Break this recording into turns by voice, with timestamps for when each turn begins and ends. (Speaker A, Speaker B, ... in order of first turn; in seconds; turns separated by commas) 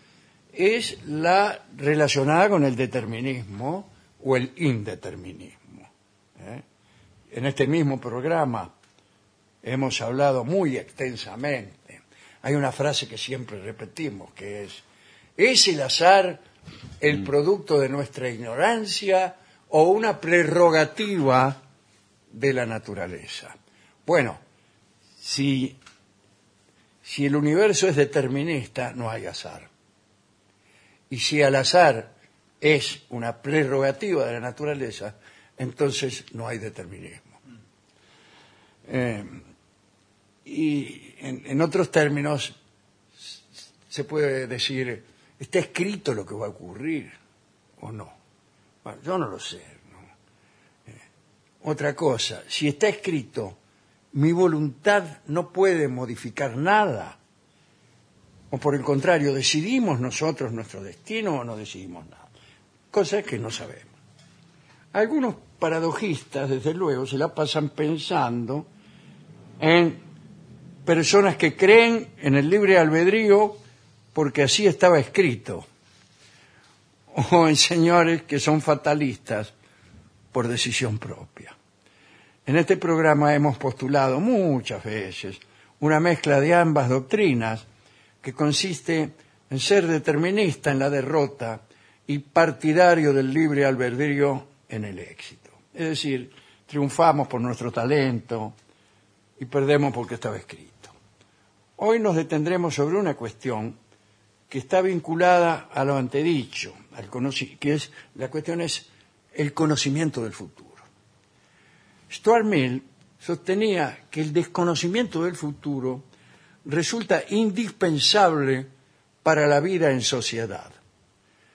Speaker A: 0.5-6.6, Speaker A: 7.3-8.7, Speaker A: 9.6-14.8, Speaker A: 15.4-16.4, Speaker A: 17.0-21.6, Speaker A: 22.3-23.5, Speaker A: 24.1-24.4, Speaker A: 25.2-25.8, Speaker A: 27.0-29.7, Speaker A: 31.1-37.4, Speaker A: 38.9-39.4, Speaker A: 40.4-42.5, Speaker A: 43.9-47.1, Speaker A: 47.8-48.1, Speaker A: 48.8-50.1, Speaker A: 51.6-53.6, Speaker A: 54.1-57.2, Speaker A: 58.5-62.3, Speaker A: 62.9-63.9, Speaker A: 64.9-68.7, Speaker A: 69.6-70.0, Speaker A: 70.8-73.6, Speaker A: 74.1-75.7, Speaker A: 77.1-79.5, Speaker A: 80.3-81.5, Speaker A: 82.5-87.7, Speaker A: 88.2-98.5, Speaker A: 99.4-100.9, Speaker A: 101.8-103.8, Speaker A: 104.5-110.8, Speaker A: 112.1-116.0, Speaker A: 116.6-118.7, Speaker A: 119.2-120.8